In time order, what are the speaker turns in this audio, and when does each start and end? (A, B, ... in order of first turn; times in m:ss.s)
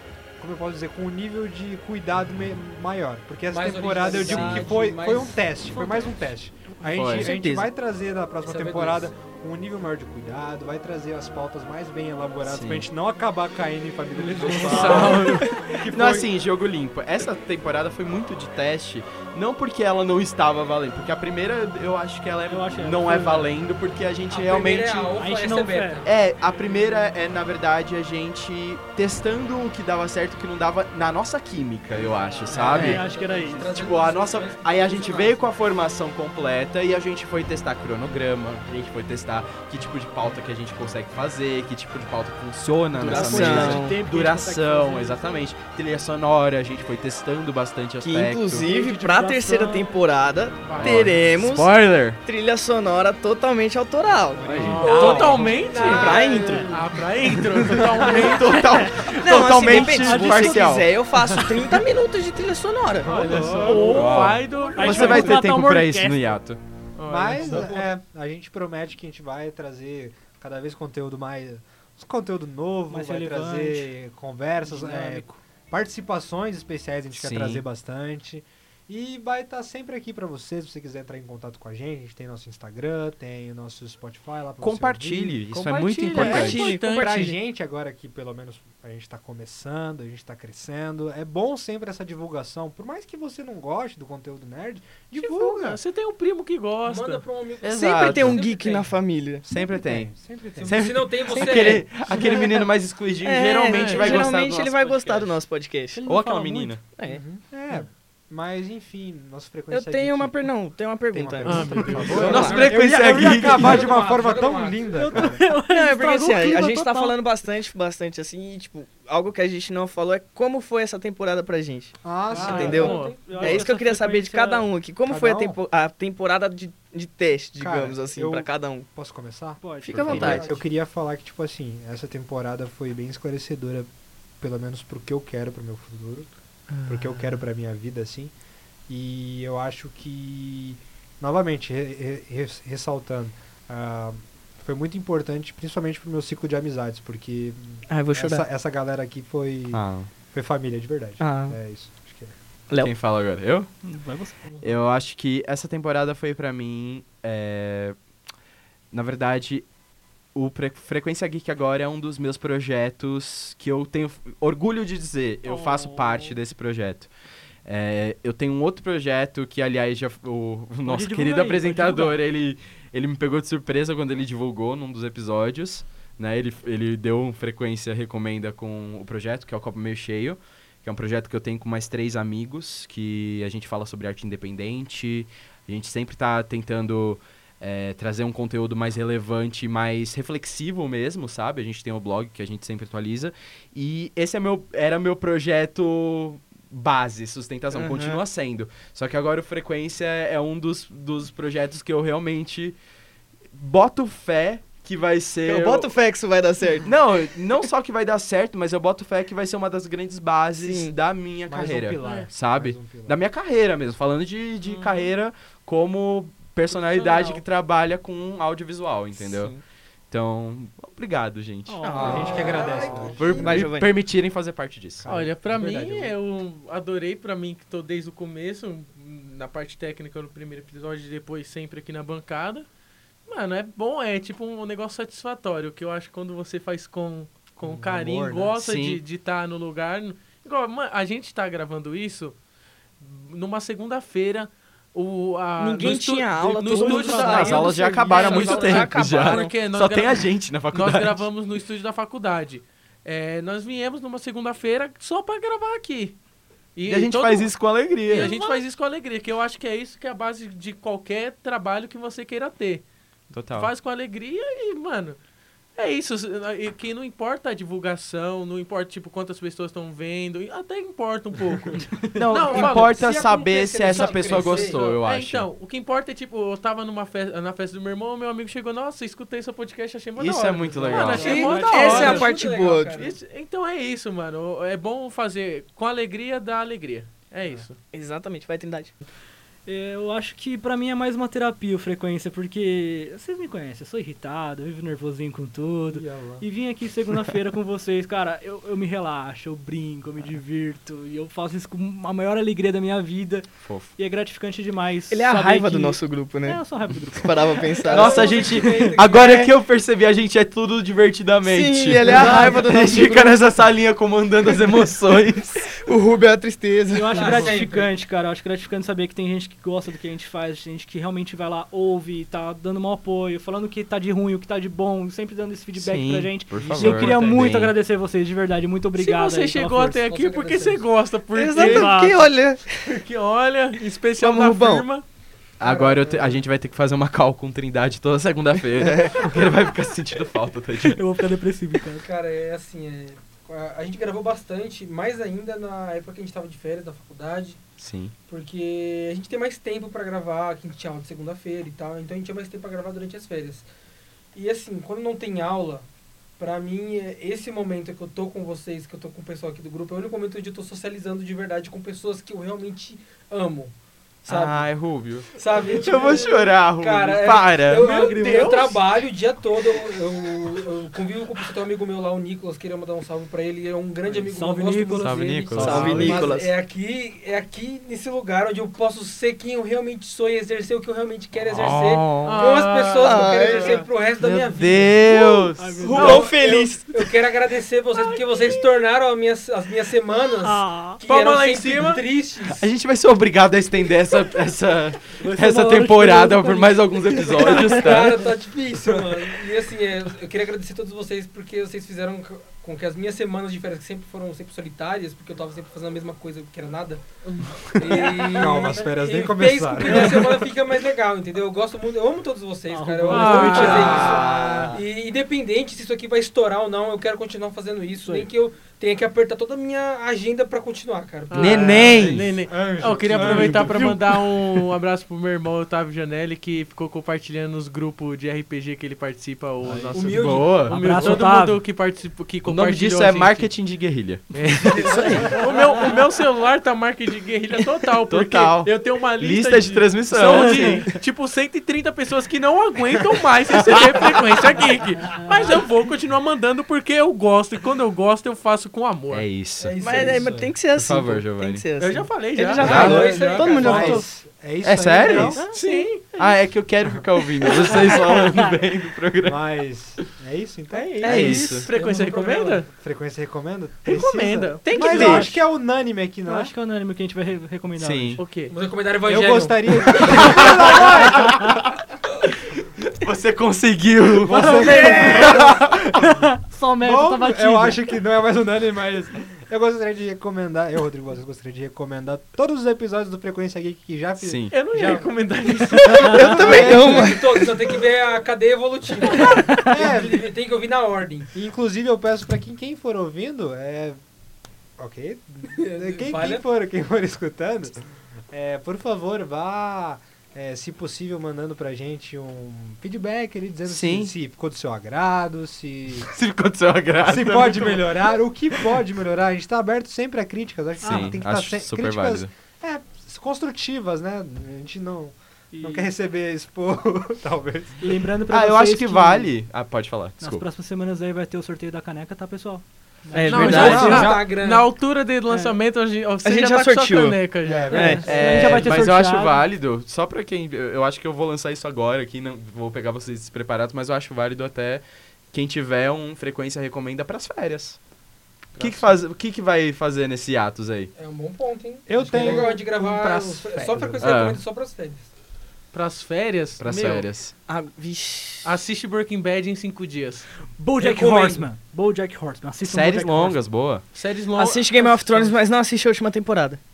0:00.4-0:16.3 A
0:03.5-0:05.4 B
0:04.1-0:04.6 C
0:06.9-0:07.4 C
0:07.1-0:07.7 D
0:08.4-0:09.1 B
0:12.4-0:12.9 C
0:14.2-0:15.5 E
0:14.5-0:15.4 F
0:14.7-0:25.1 C
0:22.5-0:23.5 E
0:24.3-0:26.1 B
0:25.2-0:26.0 E
0:26.0-0:33.0 C
0:32.2-0:33.7 E
0:32.5-0:35.5 B
0:32.7-0:33.0 D
0:33.6-0:48.7 C
0:43.0-0:44.0 D
0:43.0-0:45.5 E
0:48.0-0:56.6 D
0:48.5-0:49.9 E
0:50.6-0:51.0 F
0:50.7-0:52.2 C
0:54.3-0:56.1 A
0:54.4-0:54.8 C
0:54.6-0:55.2 E
0:54.8-0:56.7 B
0:54.8-0:58.7 F
0:56.4-0:56.8 E
0:57.6-0:58.3 A
0:57.7-1:00.9 C
0:58.5-1:01.5 E
0:59.0-1:03.1 D
1:03.0-1:04.4 A
1:03.0-1:05.4 F
1:03.6-1:06.6 C
1:04.5-1:05.1 B
1:04.8-1:06.4 E
1:07.0-1:07.8 F
1:07.1-1:35.8 A
1:12.9-1:13.9 E
1:14.6-1:15.2 E
1:17.1-1:17.6 C
1:24.6-1:26.7 C
1:25.7-1:27.3 F
1:26.0-1:27.3 D
1:35.2-1:37.2 F
1:36.8-1:38.9 B
1:37.6-1:38.4 C
1:37.7-1:39.4 D
1:39.5-1:45.4 C
1:39.5-1:40.8 A
1:40.6-1:41.9 B
1:41.3-1:46.0 D
1:43.6-1:44.3 F
1:45.9-1:46.8 E
1:46.0-1:46.8 C
1:46.9-1:47.2 D
1:47.0-1:50.5 A
1:49.7-1:52.8 D
1:51.1-1:55.4 A
1:51.4-1:52.7 F
1:52.0-1:54.0 C
1:52.2-1:55.0 B
1:54.8-1:57.2 E
1:55.7-2:08.8 D
2:02.0-2:02.9 A
2:02.3-2:04.7 E
2:02.4-2:03.5 B
2:02.6-2:03.2 F
2:05.1-2:05.6 A
2:07.6-2:13.9 A
2:09.6-2:10.6 E
2:09.8-2:10.6 D
2:10.0-2:10.3 C
2:14.4-2:16.3 A
2:16.8-2:18.3 A
2:18.9-2:32.3 A
2:27.9-2:28.4 D
2:29.7-2:30.1 C
2:31.2-2:31.6 D
2:32.7-2:32.9 D
2:32.8-2:33.7 C
2:33.8-2:34.6 E
2:34.6-2:38.0 C
2:38.9-2:39.7 C
2:40.3-2:47.1 C
2:45.4-2:46.4 E
2:47.6-3:22.8 C
2:50.8-2:52.2 E
3:17.7-3:18.2 D
3:23.5-3:25.9 C
3:25.4-3:26.9 D
3:26.8-3:39.5 C
3:30.6-3:31.0 D
3:31.5-3:33.2 A
3:32.0-3:32.3 F
3:36.7-3:37.4 F
3:39.2-3:39.6 D
3:40.1-3:42.4 C
3:41.7-3:42.6 E
3:41.8-3:43.9 D
3:41.9-3:43.5 A
3:42.1-3:43.6 B
3:43.2-3:46.1 C
3:45.0-3:45.8 A
3:45.0-3:52.6 F
3:53.3-4:02.4 F
3:57.6-3:58.5 A
3:58.6-3:59.0 C
4:03.0-4:16.2 F
4:05.6-4:09.6 D
4:06.4-4:07.2 E
4:07.0-4:11.2 C
4:16.8-4:22.9 F
4:16.8-4:18.3 C
4:18.1-4:18.6 E
4:23.3-4:23.7 C
4:23.5-4:25.2 F
4:25.8-4:33.0 F
4:32.1-4:35.5 C
4:32.3-4:35.0 B
4:33.9-4:47.8 F
4:40.2-4:41.6 C
4:40.8-4:42.3 E
4:41.1-4:43.2 B
4:41.2-4:43.1 D
4:47.9-4:48.9 D
4:49.6-5:08.0 E
4:55.9-4:56.4 A
5:03.6-5:03.9 C
5:05.1-5:09.5 D
5:07.9-5:09.4 B
5:07.9-5:15.7 C
5:11.4-5:13.4 D
5:12.0-5:12.7 E
5:15.7-5:17.5 D
5:16.9-5:30.0 E
5:17.1-5:17.9 B
5:25.8-5:27.7 C
5:29.0-5:32.0 F
5:29.8-5:30.9 B
5:31.3-5:33.0 D
5:31.5-5:32.3 E
5:32.8-5:35.0 F
5:34.2-5:34.8 D
5:35.6-5:41.0 C
5:35.6-5:36.4 B
5:38.8-5:39.5 D
5:40.8-5:42.1 E
5:42.0-5:47.6 B
5:47.8-5:48.1 C
5:48.3-5:53.7 B
5:54.3-5:55.9 B
5:56.4-6:03.7 B
6:04.2-6:04.7 B
6:04.2-6:08.0 C
6:05.3-6:25.0 B
6:07.7-6:08.8 F
6:07.7-6:08.5 E
6:14.1-6:16.2 E
6:15.0-6:16.3 C
6:15.6-6:16.5 D
6:21.4-6:22.4 C
6:22.2-6:23.9 F
6:23.0-6:23.8 D
6:24.2-6:26.1 C
6:25.0-6:26.9 D
6:25.5-6:26.3 E
6:25.8-6:32.7 B
6:28.0-6:28.2 F
6:30.4-6:31.0 E
6:31.0-6:32.0 F
6:32.5-6:38.3 C
6:35.2-6:37.8 E
6:37.2-6:47.0 B
6:38.9-6:39.1 A
6:47.8-7:02.2 B
6:47.9-6:50.5 A
6:52.7-6:54.0 E
6:53.1-6:54.2 F
6:53.6-6:54.7 A
6:53.8-6:54.8 C
6:54.0-6:54.6 D
6:58.0-6:58.3 E
7:01.3-7:13.5 F
7:01.3-7:02.4 C
7:02.3-7:04.0 A
7:03.1-7:04.2 C
7:09.6-7:11.2 C
7:09.9-7:10.7 B
7:10.6-7:11.6 E
7:12.4-7:15.4 C
7:14.3-7:15.6 E
7:14.4-7:29.2 F
7:18.1-7:20.9 C
7:20.2-7:20.9 E
7:23.6-7:24.1 C
7:29.1-7:31.6 C
7:29.6-7:30.5 B
7:29.8-7:34.0 D
7:31.8-7:33.8 F
7:32.6-7:33.1 C
7:32.6-7:34.0 B
7:33.6-7:35.4 A
7:34.6-7:35.5 C
7:35.1-7:35.8 D
7:35.5-7:36.0 F
7:36.1-7:39.4 C
7:39.2-7:41.1 A
7:41.0-7:41.6 D
7:41.0-7:41.7 C
7:41.0-7:42.7 F
7:41.7-7:42.6 B
7:42.7-7:46.5 A
7:43.8-7:44.7 F
7:44.6-7:45.3 D
7:44.7-7:45.4 E
7:46.2-7:48.2 E
7:47.8-7:48.3 C
7:48.2-7:48.5 F
7:48.5-7:50.5 B
7:49.1-7:51.6 A
7:50.0-7:56.0 C
7:54.2-7:56.1 A
7:54.3-7:57.9 E
7:56.8-8:05.0 A
8:04.2-8:04.6 C
8:04.5-8:06.4 F
8:05.7-8:07.5 D
8:06.2-8:11.3 B
8:06.3-8:07.1 A
8:09.2-8:09.7 E
8:09.7-8:10.3 A
8:11.3-8:14.0 A
8:14.8-8:26.1 A
8:15.5-8:16.4 B
8:23.7-8:24.1 C
8:26.0-8:28.1 C
8:27.0-8:37.9 A
8:30.8-8:31.2 E
8:30.8-8:32.3 C
8:35.5-8:35.9 E
8:37.8-8:39.4 E
8:38.3-8:40.4 C
8:40.2-8:44.2 E
8:43.1-8:44.1 D
8:43.2-8:48.0 F
8:43.3-8:44.7 B
8:43.5-8:44.1 A
8:45.3-8:45.6 E
8:46.2-8:48.1 D
8:47.4-8:48.7 A
8:47.7-8:49.4 E
8:48.0-8:57.8 C
8:58.5-9:00.9 C
9:01.0-9:05.1 B
9:01.9-9:04.1 A
9:04.0-9:04.4 C
9:05.7-9:07.1 F
9:06.6-9:07.4 C
9:07.5-9:08.5 D
9:08.4-9:10.3 F
9:10.6-9:13.4 E
9:10.8-9:11.5 B
9:12.6-9:13.9 C
9:13.9-9:15.4 F
9:14.3-9:16.6 D